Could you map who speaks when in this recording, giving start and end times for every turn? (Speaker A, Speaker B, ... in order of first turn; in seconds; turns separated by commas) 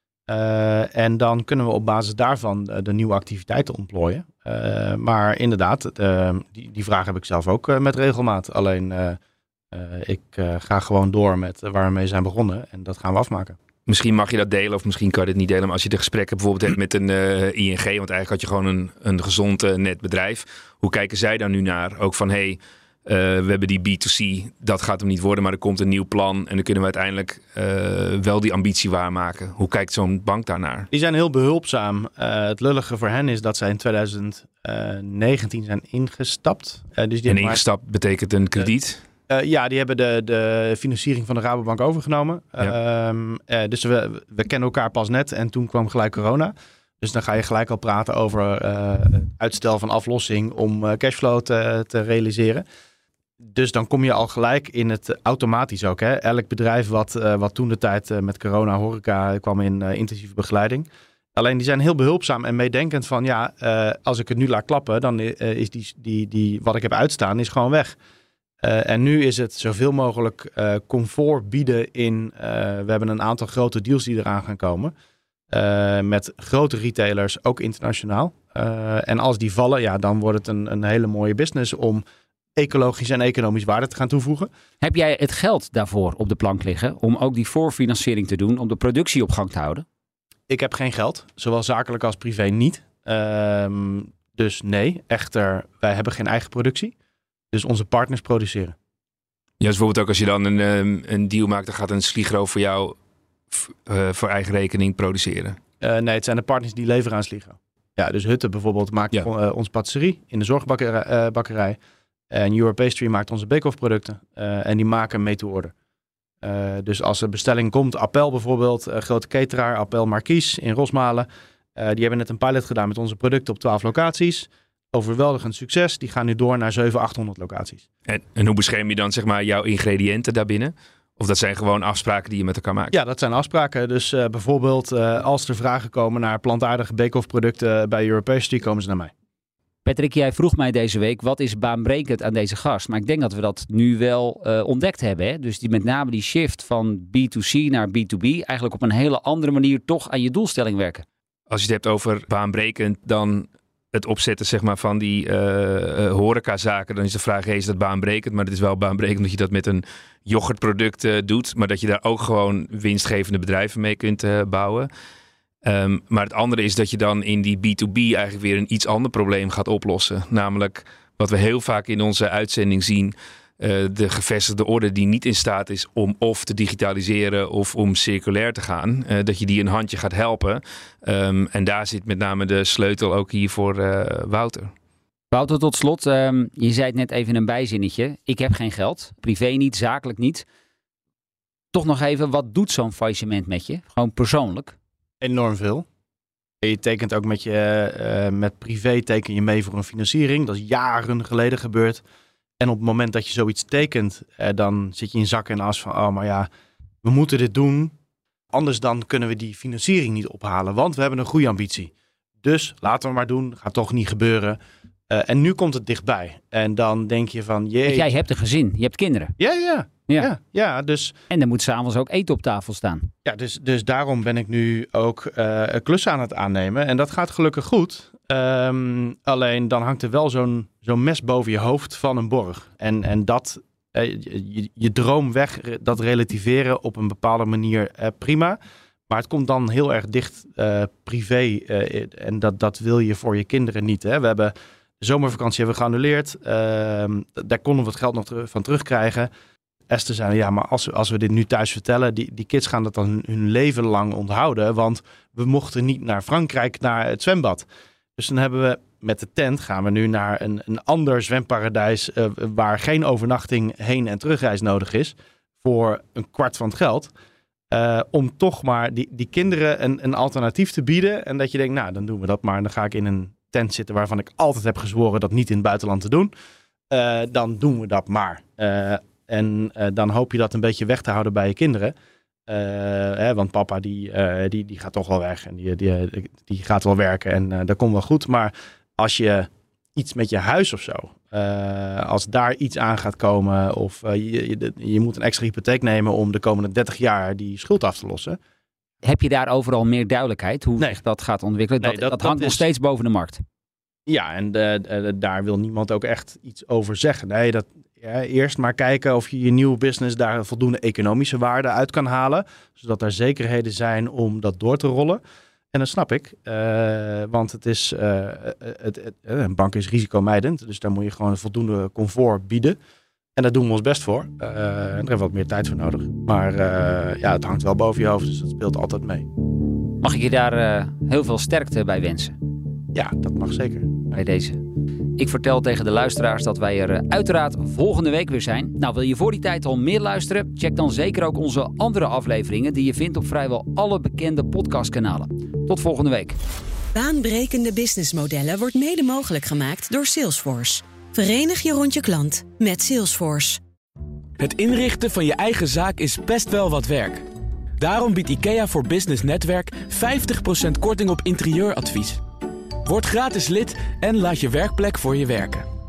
Speaker A: 0.3-9.2, Speaker A: 9.7-13.6, Speaker B: 13.9-30.9, Speaker A: 30.9-37.6, Speaker B: 37.3-39.0, Speaker A: 39.3-52.6, Speaker A: 53.4-68.0, Speaker A: 68.6-74.9, Speaker A: 75.5-82.0, Speaker A: 82.6-84.5, Speaker C: 84.8-89.8, Speaker A: 90.5-96.9, Speaker A: 97.5-98.8, Speaker B: 99.6-103.0, Speaker B: 103.5-105.6, Speaker A: 105.8-111.8, Speaker A: 112.3-115.7, Speaker A: 116.4-127.8, Speaker B: 128.1-133.0, Speaker A: 132.9-139.1, Speaker C: 139.8-151.1, Speaker B: 151.5-164.9, Speaker B: 165.6-184.7, Speaker C: 185.3-190.4, Speaker C: 191.7-194.8, Speaker A: 195.2-195.9, Speaker A: 196.6-202.0, Speaker A: 202.6-206.5, Speaker A: 207.0-207.9, Speaker A: 208.5-211.9, Speaker A: 212.4-218.1, Speaker C: 217.9-219.3, Speaker A: 219.4-221.2, Speaker C: 221.3-223.1, Speaker A: 223.2-238.6, Speaker A: 239.1-249.3, Speaker A: 249.9-257.7, Speaker A: 258.2-267.1, Speaker A: 267.7-276.3, Speaker A: 276.9-281.9, Speaker A: 282.5-298.4, Speaker C: 299.0-303.4, Speaker A: 301.8-302.6, Speaker A: 304.1-315.2, Speaker A: 315.7-322.8, Speaker A: 323.4-329.3, Speaker C: 330.0-332.4, Speaker A: 332.9-334.1, Speaker C: 334.1-334.6, Speaker C: 335.2-346.4, Speaker D: 346.9-353.6, Speaker E: 354.4-357.3, Speaker E: 357.8-362.2, Speaker E: 362.9-365.7